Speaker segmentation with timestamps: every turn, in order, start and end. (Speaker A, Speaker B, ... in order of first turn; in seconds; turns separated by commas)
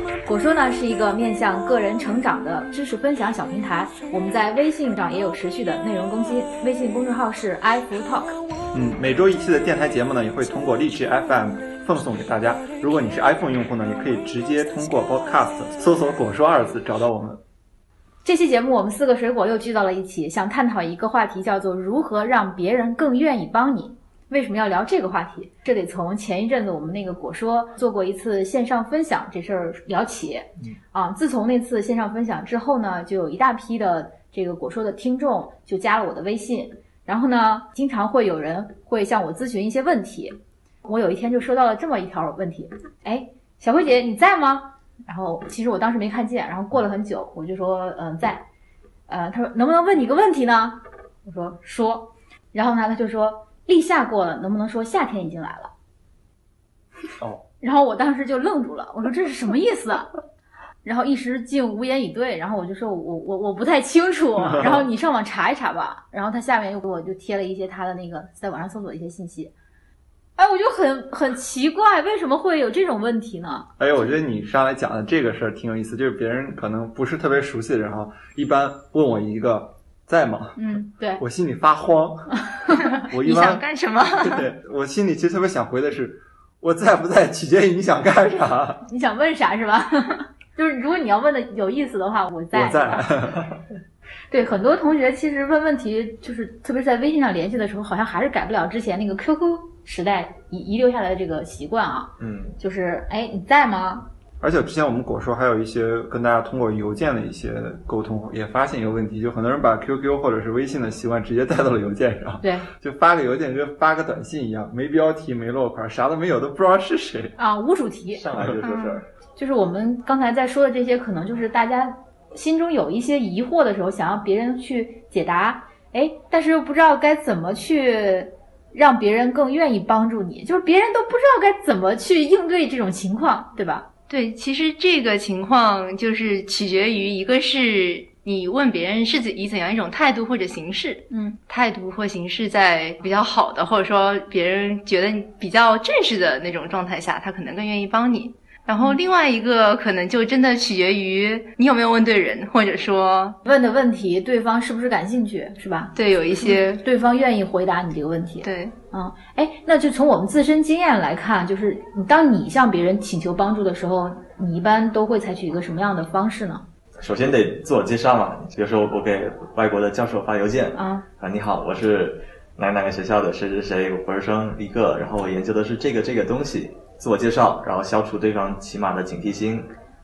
Speaker A: 0.2-8.4, Speaker B: 8.7-17.4, Speaker A: 18.2-48.4, Speaker A: 49.1-55.7, Speaker A: 57.6-60.1, Speaker A: 60.8-69.5, Speaker B: 64.5-64.8, Speaker A: 70.4-73.7, Speaker B: 73.8-83.6, Speaker A: 80.5-81.2, Speaker A: 82.5-82.9, Speaker C: 82.9-84.5, Speaker B: 84.1-88.8, Speaker A: 88.8-93.1, Speaker B: 92.5-93.5, Speaker A: 94.3-104.1, Speaker D: 102.2-102.6, Speaker B: 104.4-117.3, Speaker A: 112.4-112.7, Speaker A: 117.4-118.2, Speaker D: 118.1-119.0, Speaker B: 118.3-118.6, Speaker C: 118.6-119.0, Speaker A: 119.4-133.9, Speaker C: 134.1-153.4, Speaker A: 141.1-141.4, Speaker A: 153.4-166.6, Speaker C: 155.9-156.8, Speaker C: 158.4-158.7, Speaker D: 167.0-179.7, Speaker A: 170.7-171.0